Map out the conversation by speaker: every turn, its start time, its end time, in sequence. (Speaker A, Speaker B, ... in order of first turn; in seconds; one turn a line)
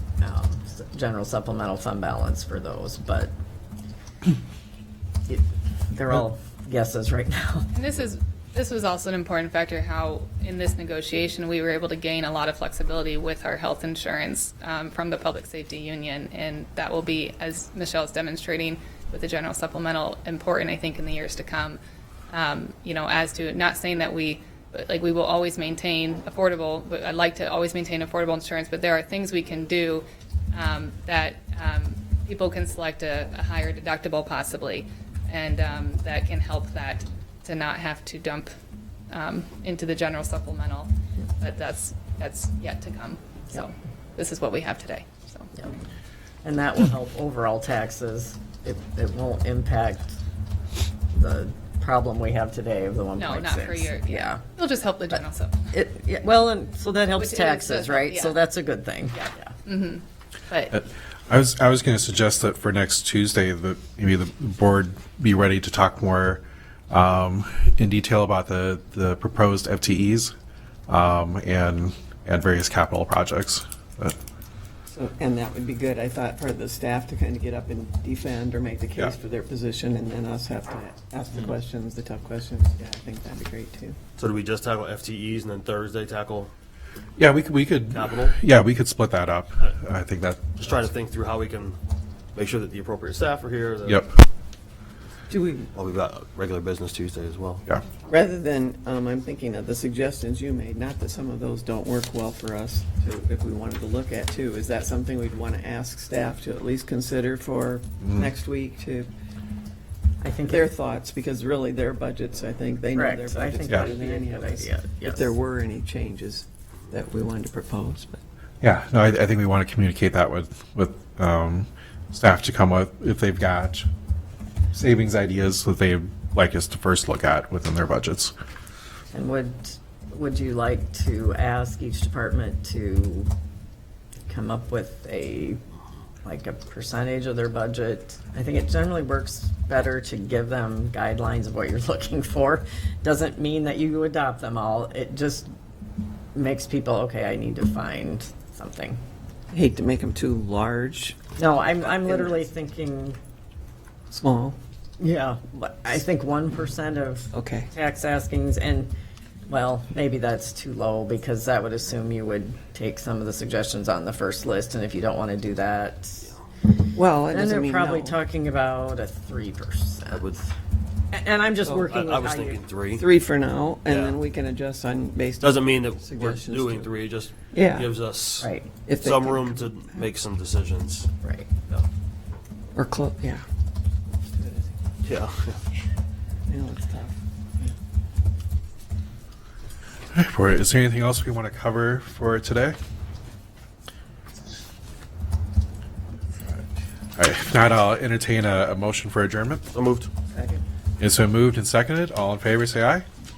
Speaker A: 0.2-3.3
Speaker A: 5.3-7.7
Speaker B: 7.7-21.8
Speaker B: 22.3-38.5
Speaker B: 39.1-45.5
Speaker A: 46.4-50.2
Speaker A: 51.1-54.4
Speaker B: 53.2-55.5
Speaker A: 55.7-59.5
Speaker B: 57.2-58.4
Speaker B: 59.1-60.7
Speaker C: 60.7-70.3
Speaker C: 70.9-74.2
Speaker D: 74.9-84.0
Speaker E: 84.2-86.5
Speaker C: 87.2-90.6
Speaker E: 87.9-88.4
Speaker E: 90.6-91.8
Speaker E: 92.3-94.0
Speaker C: 93.9-94.1
Speaker D: 95.3-95.7
Speaker E: 95.7-97.7
Speaker D: 98.1-109.1
Speaker A: 110.2-110.7
Speaker D: 110.5-118.2
Speaker A: 112.9-115.3
Speaker C: 118.6-123.9
Speaker C: 124.7-128.3
Speaker A: 129.1-133.3
Speaker A: 134.3-135.6
Speaker A: 136.2-145.5
Speaker A: 146.3-149.0
Speaker D: 149.5-151.2
Speaker A: 151.4-153.2
Speaker D: 151.8-152.4
Speaker D: 154.1-154.6
Speaker A: 155.0-158.9
Speaker D: 157.3-157.7
Speaker A: 159.5-166.3
Speaker D: 166.9-168.2
Speaker A: 167.3-170.3
Speaker E: 170.1-170.5
Speaker A: 171.1-172.6
Speaker E: 171.8-173.1
Speaker D: 172.9-176.9
Speaker E: 173.9-174.2
Speaker E: 175.4-181.1
Speaker D: 177.5-177.9
Speaker A: 178.4-178.7
Speaker D: 178.9-180.0
Speaker A: 181.2-181.5
Speaker D: 182.8-183.4
Speaker D: 184.2-184.8
Speaker E: 185.0-185.6
Speaker D: 186.5-187.7
Speaker C: 190.1-192.8
Speaker C: 197.2-199.6
Speaker E: 199.7-200.1
Speaker D: 200.3-200.6
Speaker C: 201.0-203.1